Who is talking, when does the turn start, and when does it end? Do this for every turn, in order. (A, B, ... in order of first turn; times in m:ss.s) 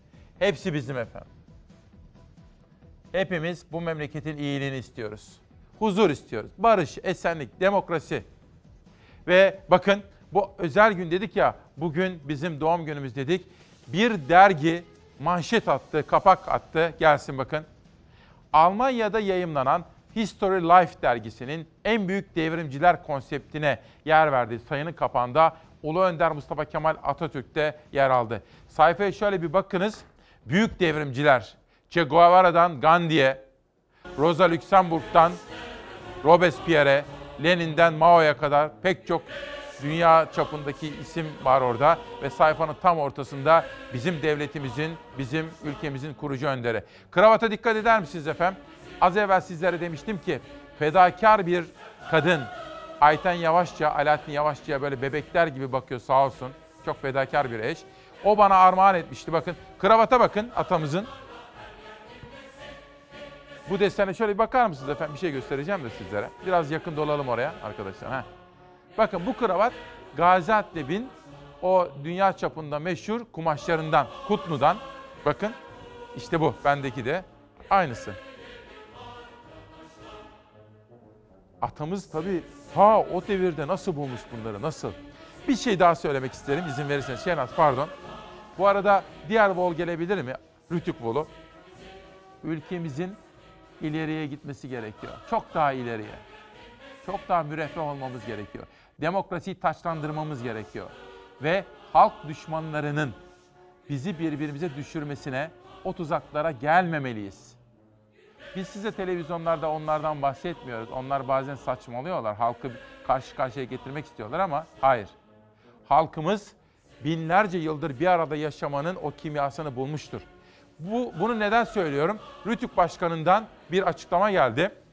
0:00.4-0:01.3 A
0:03.1-0:08.3 A
0:09.3-0:17.7 A
0:18.5-0:33.4 A
0:34.2-0:35.4 A
0:36.2-1:01.1 A
1:03.7-1:08.3 A
1:09.0-1:15.6 A
1:16.2-1:18.2 A
1:21.6-1:27.9 A
1:28.6-1:31.3 A
1:32.4-1:33.2 A
1:33.8-1:36.2 A
1:37.0-1:43.2 A
1:43.9-1:47.6 A
1:48.5-1:55.1 A
1:55.9-2:00.3 A
2:00.8-2:04.7 A